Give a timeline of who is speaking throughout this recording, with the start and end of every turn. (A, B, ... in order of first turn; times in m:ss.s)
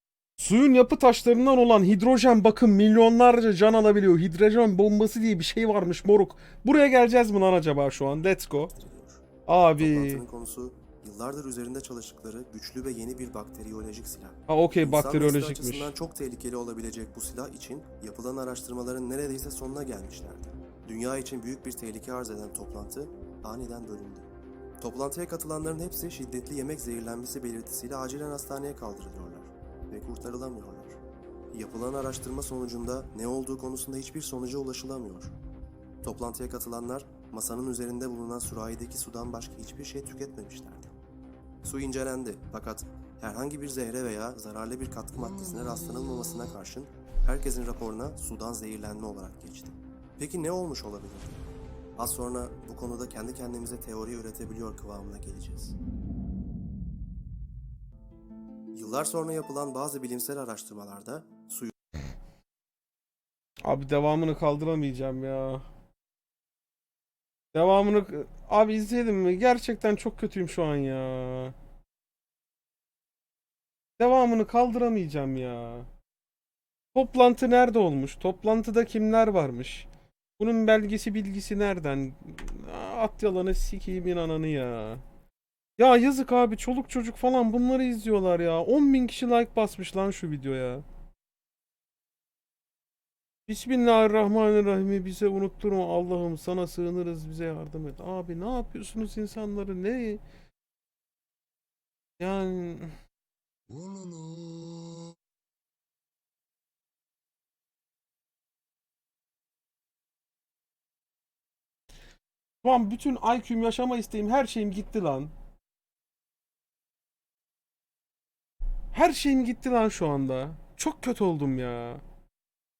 0:00.4-0:08.7 A
0:08.6-0:09.2 B
0:09.5-0:10.2 A
0:09.8-0:24.3 B
0:14.5-0:15.9 A
0:24.8-0:31.0 B
0:31.5-0:35.3 B
0:36.0-0:40.9 B
0:41.6-0:51.4 B
0:52.0-0:55.8 B
0:58.7-1:01.7 B
1:03.6-1:05.6 A
1:07.5-1:11.6 A
1:14.0-1:15.9 A
1:17.0-1:19.9 A
1:20.4-1:25.0 A
1:25.8-1:30.8 A
1:33.5-1:40.2 A
1:42.2-1:42.9 A
1:52.6-1:55.3 A
1:58.9-2:02.0 A